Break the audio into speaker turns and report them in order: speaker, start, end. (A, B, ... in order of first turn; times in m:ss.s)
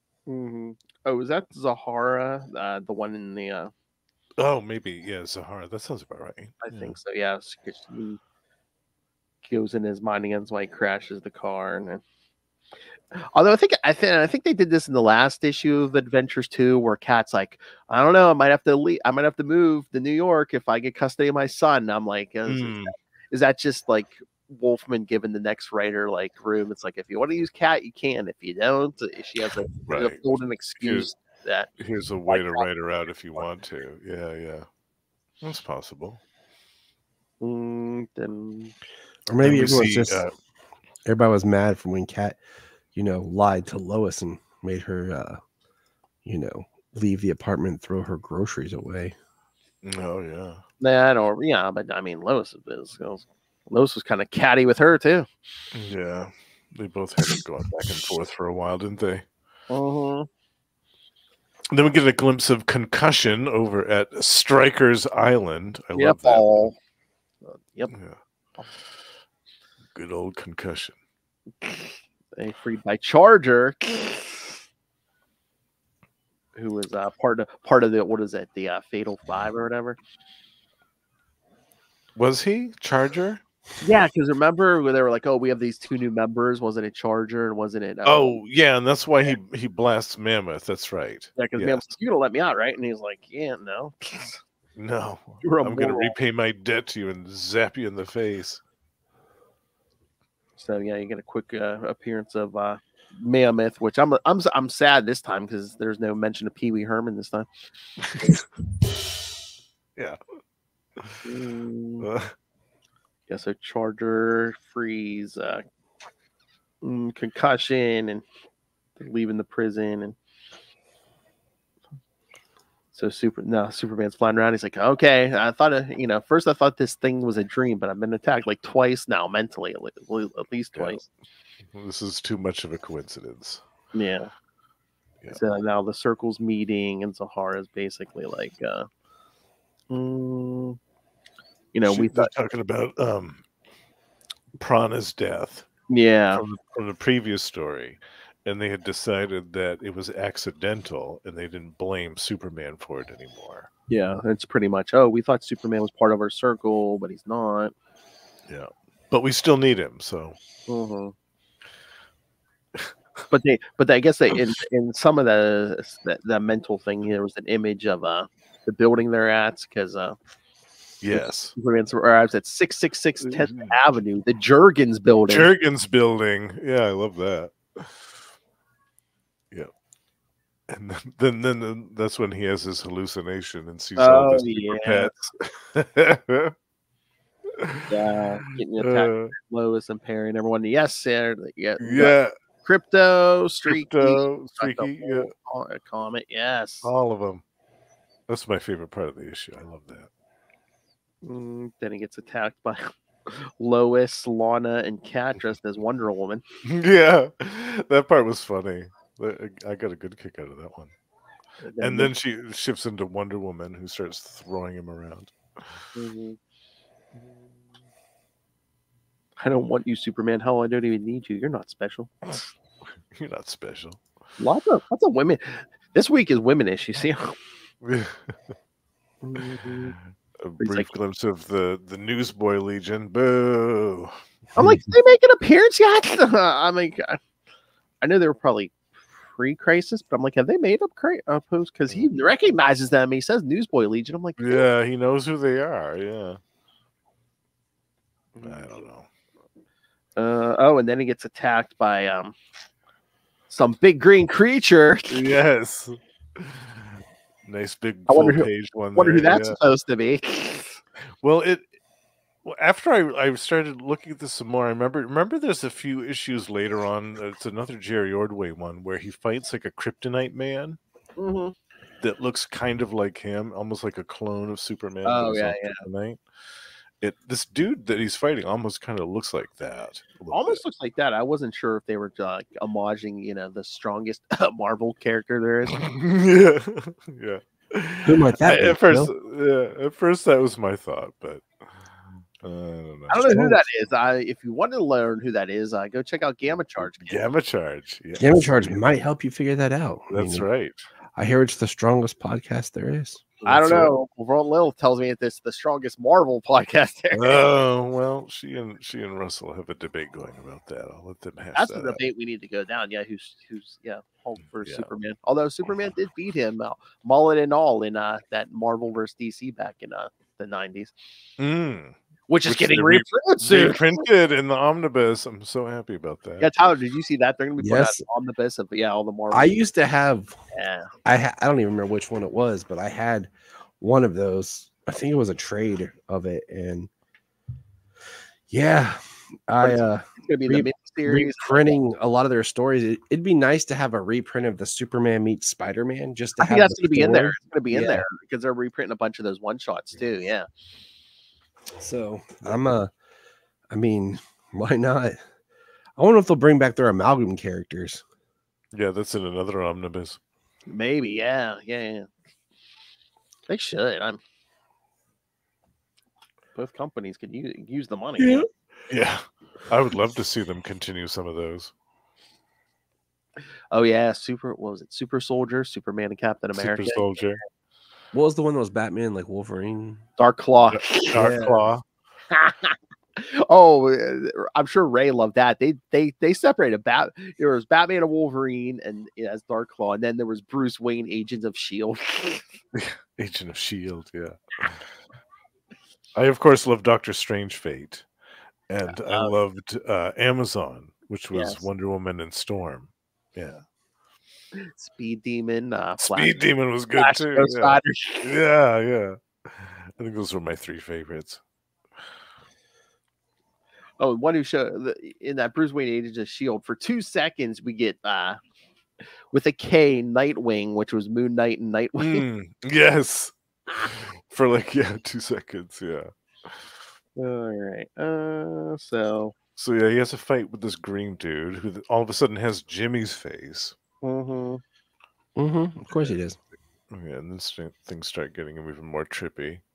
0:00.3-0:03.7 A
0:04.4-0:07.0 B
0:06.6-0:08.2 A
0:09.4-0:12.0 A
0:13.3-0:31.7 A
0:22.5-0:22.9 B
0:29.9-0:30.2 B
0:30.8-0:31.1 B
0:31.8-0:34.7 B
0:32.3-0:32.7 A
0:35.4-0:36.2 B
0:37.4-0:38.7 A
0:39.3-0:40.2 C
0:39.4-0:40.3 B
0:39.6-0:39.8 A
0:41.1-0:42.4 C
0:42.9-0:45.4 C
0:46.2-0:49.2 C
0:49.8-0:50.6 B
0:50.8-0:55.3 A
0:55.7-0:59.2 B
0:59.7-1:00.3 A
1:01.7-1:06.7 B
1:06.0-1:06.8 A
1:07.5-1:07.9 A
1:07.9-1:08.2 B
1:09.9-1:11.0 B
1:11.6-1:14.6 A
1:16.6-1:20.0 A
1:22.2-1:23.4 B
1:23.8-1:28.4 A
1:28.0-1:31.8 B
1:31.4-1:34.4 A
1:34.8-1:38.6 B
1:35.4-1:36.2 A
1:40.6-1:47.5 A
1:48.0-1:48.4 B
1:51.2-1:52.1 A
1:52.0-1:52.3 B
1:53.3-1:55.6 A
1:56.8-1:58.2 A
1:59.0-2:00.2 A
2:02.9-2:11.0 A
2:10.8-2:11.1 B
2:11.7-2:13.6 B
2:13.9-2:14.3 A
2:15.3-2:18.9 A
2:19.9-2:20.8 A
2:21.7-2:22.3 A
2:21.9-2:23.4 B
2:24.6-2:25.7 B
2:25.9-2:26.4 A
2:26.3-2:33.7 B
2:33.9-2:37.7 A
2:38.5-2:40.4 B
2:40.7-2:41.1 A
2:43.3-2:50.2 A
2:51.0-2:51.5 B
2:51.1-2:55.5 A
2:53.2-2:53.7 B
2:55.3-2:58.0 B
3:00.7-3:06.5 B
3:04.0-3:05.1 A
3:07.5-3:07.9 B
3:07.9-3:16.9 A
3:08.8-3:09.3 B
3:11.8-3:12.3 B
3:13.7-3:15.3 B
3:16.8-3:17.4 B
3:18.3-3:20.1 B
3:21.2-3:26.4 A
3:26.7-3:30.9 B
3:31.6-3:32.1 A
3:31.8-3:35.8 B
3:36.0-3:36.4 A
3:39.4-3:42.4 A
3:43.1-3:44.0 B
3:44.4-3:47.4 A
3:47.8-3:48.4 B
3:49.2-3:50.0 A
3:50.4-3:54.2 B
3:50.6-3:50.9 A
3:54.6-3:57.2 A
3:58.0-4:04.6 A
4:04.4-4:06.4 B
4:08.4-4:08.6 A
4:08.4-4:09.1 B
4:10.2-4:12.4 A
4:13.5-4:15.2 A
4:15.1-4:19.6 B
4:18.1-4:20.8 A
4:21.2-4:21.7 B
4:22.4-4:30.8 B
4:31.2-4:31.6 A
4:32.0-4:36.2 B
4:35.0-4:35.8 A
4:37.0-4:40.6 B
4:40.3-4:45.8 A
4:45.7-4:53.4 B
4:48.0-4:49.1 C
4:53.1-4:57.2 A
4:53.2-4:53.6 C
4:57.1-4:59.0 B
4:58.2-5:00.5 C
5:00.1-5:00.8 B
5:01.2-5:03.4 C
5:03.4-5:03.9 B
5:03.5-5:07.5 A
5:07.1-5:12.0 B
5:11.6-5:20.9 A
5:14.6-5:14.9 B
5:21.4-5:26.5 B
5:22.3-5:24.0 A
5:26.4-5:29.6 A
5:27.6-5:28.0 C
5:29.3-5:30.4 C
5:30.5-5:30.9 A
5:31.0-5:36.9 C
5:38.5-5:48.1 C
5:39.6-5:41.8 A
5:46.4-5:50.5 A
5:51.8-5:52.9 C
5:52.4-5:52.8 B
5:53.7-5:55.2 C
5:56.0-5:58.0 C
5:58.7-6:00.2 B
6:00.7-6:02.1 A
6:03.5-6:04.2 A
6:06.6-6:08.5 A
6:08.9-6:11.7 B
6:13.7-6:17.4 A
6:16.5-6:17.4 B
6:18.1-6:20.0 C
6:20.2-6:21.6 A
6:20.7-6:21.8 B
6:21.2-6:21.6 C
6:22.3-6:32.5 A
6:32.7-6:34.8 B
6:36.2-6:38.1 B
6:38.7-6:43.6 B
6:39.0-6:39.3 A
6:41.3-6:41.6 A
6:44.6-6:48.4 A
6:46.0-6:51.4 B
6:54.0-6:58.4 A
6:59.3-7:02.2 A
7:02.0-7:06.7 B
7:07.2-7:09.4 A
7:09.6-7:13.8 B
7:14.0-7:14.6 A
7:15.4-7:16.4 C
7:16.9-7:19.6 B